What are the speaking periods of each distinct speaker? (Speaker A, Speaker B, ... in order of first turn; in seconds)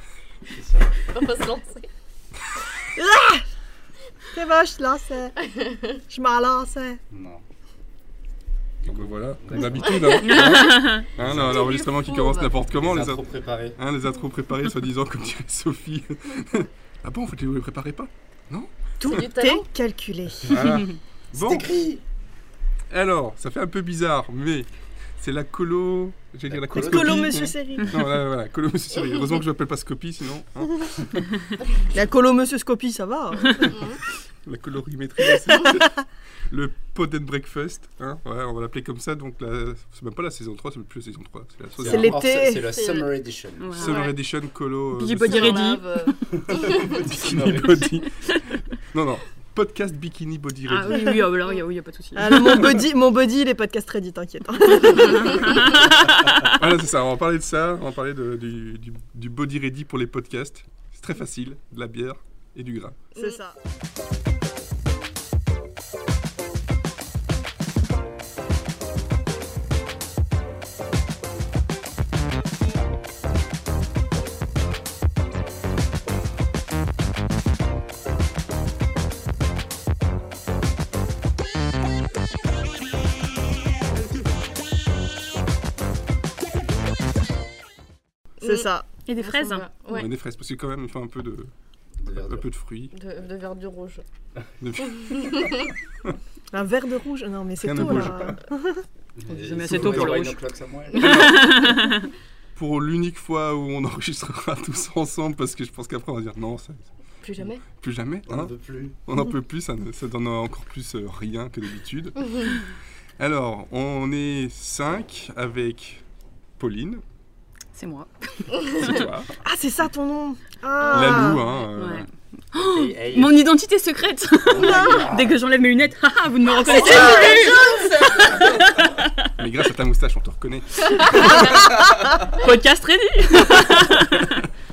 Speaker A: 0.5-1.1, 7.1-7.4, 8.8-10.3, 11.1-11.7, 12.7-13.8, 21.3-22.0, 26.5-27.4, 41.8-44.0, 46.3-47.9, 92.0-92.5, 99.2-101.4, 108.3-109.0, 122.5-123.4, 124.5-125.4, 127.1-127.5, 128.1-128.9
Speaker B: 1.1-1.9, 5.4-6.0, 9.9-10.4, 11.5-12.5, 19.1-19.7, 33.6-34.0, 42.6-43.1, 45.3-47.0, 88.4-90.1, 92.9-94.0, 95.0-95.6, 107.2-107.6, 126.6-128.8
Speaker C: 2.9-3.4, 4.3-5.4, 6.1-7.0, 19.0-20.6, 26.8-28.1, 31.9-34.0, 41.8-42.7, 52.2-55.6, 63.1-63.6, 88.4-88.9, 96.5-98.8, 119.4-121.4
Speaker D: 8.9-13.2, 13.8-18.7, 20.5-21.7, 22.9-31.3, 34.5-42.2, 43.8-45.6, 47.0-51.2, 56.4-63.0, 89.9-91.5, 92.1-92.9, 94.6-96.2, 97.6-98.4, 99.6-100.2, 101.0-101.6, 102.5-112.6, 113.2-116.0, 116.6-117.0, 118.6-119.3, 120.9-122.1, 129.4-131.7
Speaker E: 10.2-11.1, 43.6-44.2, 44.9-46.2, 50.7-52.8, 54.9-56.6, 89.1-89.7, 99.3-100.4, 101.0-102.1, 117.8-119.0, 120.9-129.3, 131.2-134.4